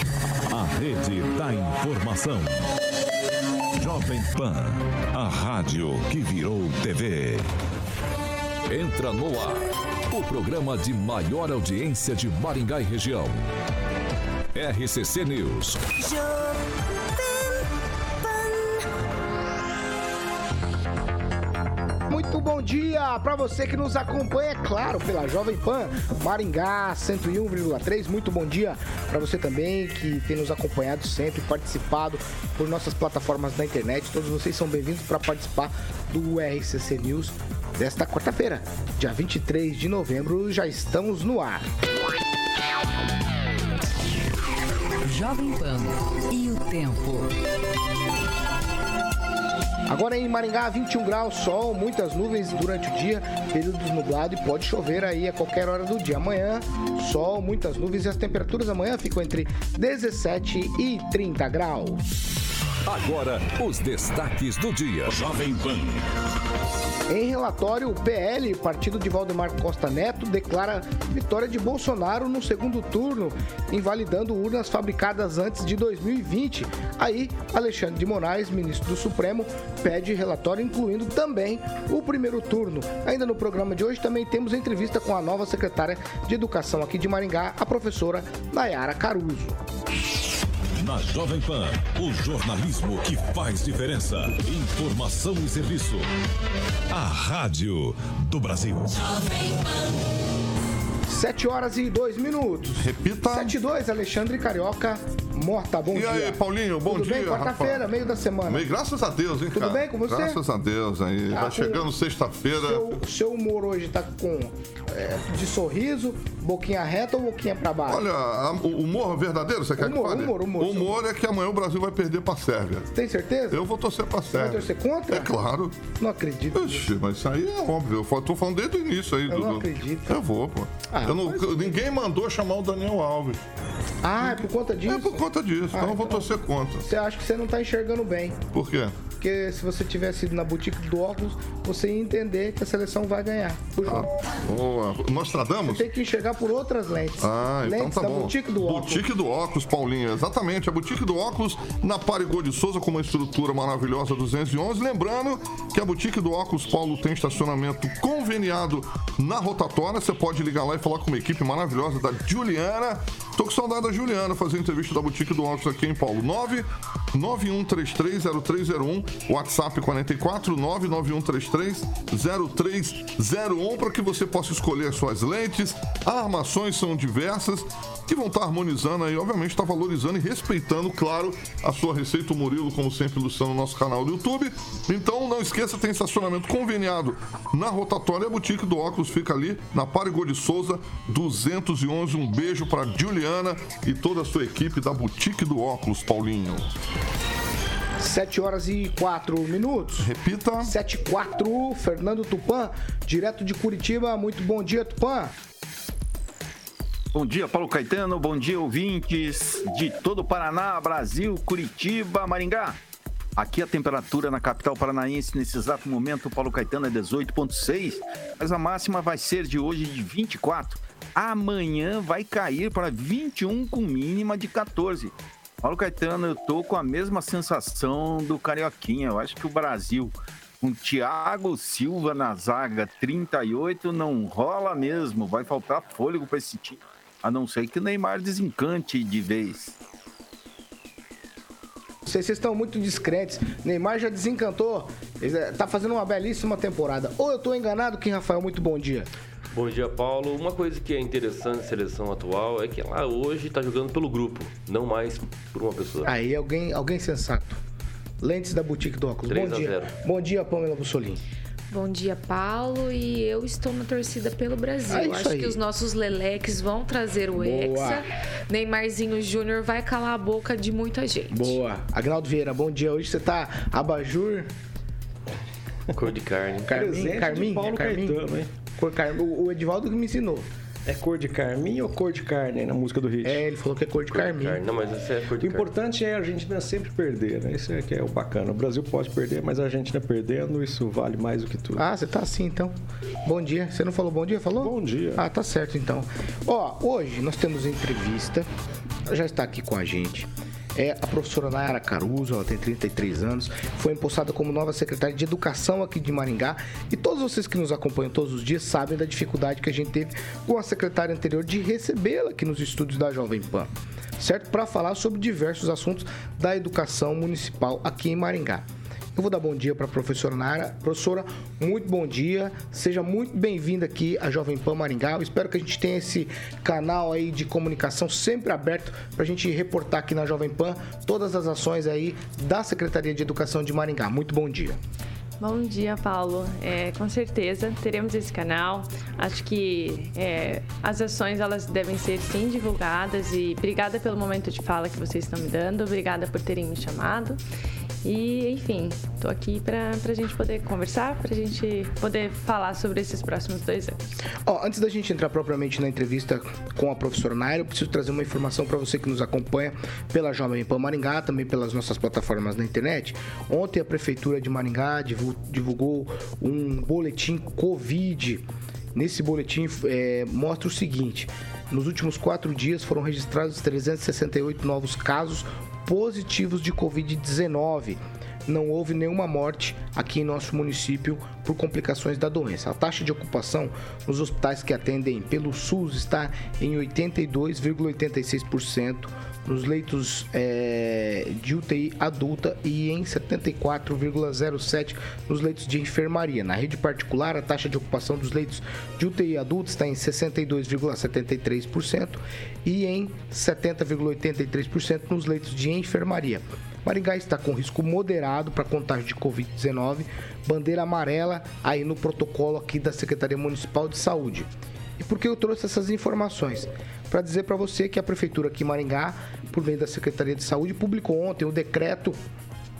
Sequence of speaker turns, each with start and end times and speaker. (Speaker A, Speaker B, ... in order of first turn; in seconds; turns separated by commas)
Speaker A: 0.5-2.6, Speaker A: 3.8-7.5, Speaker A: 8.7-13.4, Speaker A: 14.5-15.9, Speaker B: 22.1-41.7, Speaker C: 45.0-47.3, Speaker B: 49.9-62.1, Speaker A: 62.8-66.0, Speaker B: 67.1-89.6, Speaker A: 90.8-96.1, Speaker A: 96.9-99.3, Speaker B: 101.1-108.7, Speaker D: 102.8-103.5, Speaker D: 105.9-107.8, Speaker D: 108.5-112.9, Speaker B: 109.5-110.4, Speaker B: 111.3-111.9, Speaker B: 112.6-118.0, Speaker D: 117.9-122.9, Speaker B: 119.8-121.0, Speaker B: 122.9-123.6, Speaker D: 123.5-125.9, Speaker B: 124.3-125.3, Speaker B: 125.9-126.9, Speaker D: 126.5-133.4, Speaker B: 129.3-130.2, Speaker B: 130.9-131.8, Speaker B: 134.0-136.3, Speaker D: 134.2-136.9, Speaker B: 136.8-138.4, Speaker D: 138.5-139.0, Speaker B: 139.2-144.1, Speaker D: 143.9-145.8, Speaker B: 145.6-149.1, Speaker D: 147.2-196.7, Speaker B: 198.0-200.1, Speaker D: 200.0-200.7, Speaker B: 200.6-205.3, Speaker E: 207.1-212.8, Speaker E: 213.4-239.8, Speaker B: 242.1-249.1, Speaker F: 249.5-256.1, Speaker B: 256.0-257.6, Speaker B: 258.2-261.2, Speaker F: 259.3-259.9, Speaker G: 261.7-271.6, Speaker B: 264.9-265.6, Speaker B: 267.4-268.0, Speaker B: 271.3-274.5, Speaker F: 275.9-276.8, Speaker B: 276.6-280.5, Speaker H: 276.7-278.5, Speaker H: 280.9-283.4, Speaker B: 283.2-284.6, Speaker F: 284.1-285.7, Speaker H: 285.4-291.8, Speaker B: 291.8-298.5, Speaker H: 294.6-295.2, Speaker B: 299.1-334.8, Speaker I: 335.4-347.4, Speaker I: 348.0-354.1, Speaker B: 354.4-368.4, Speaker B: 368.9-422.2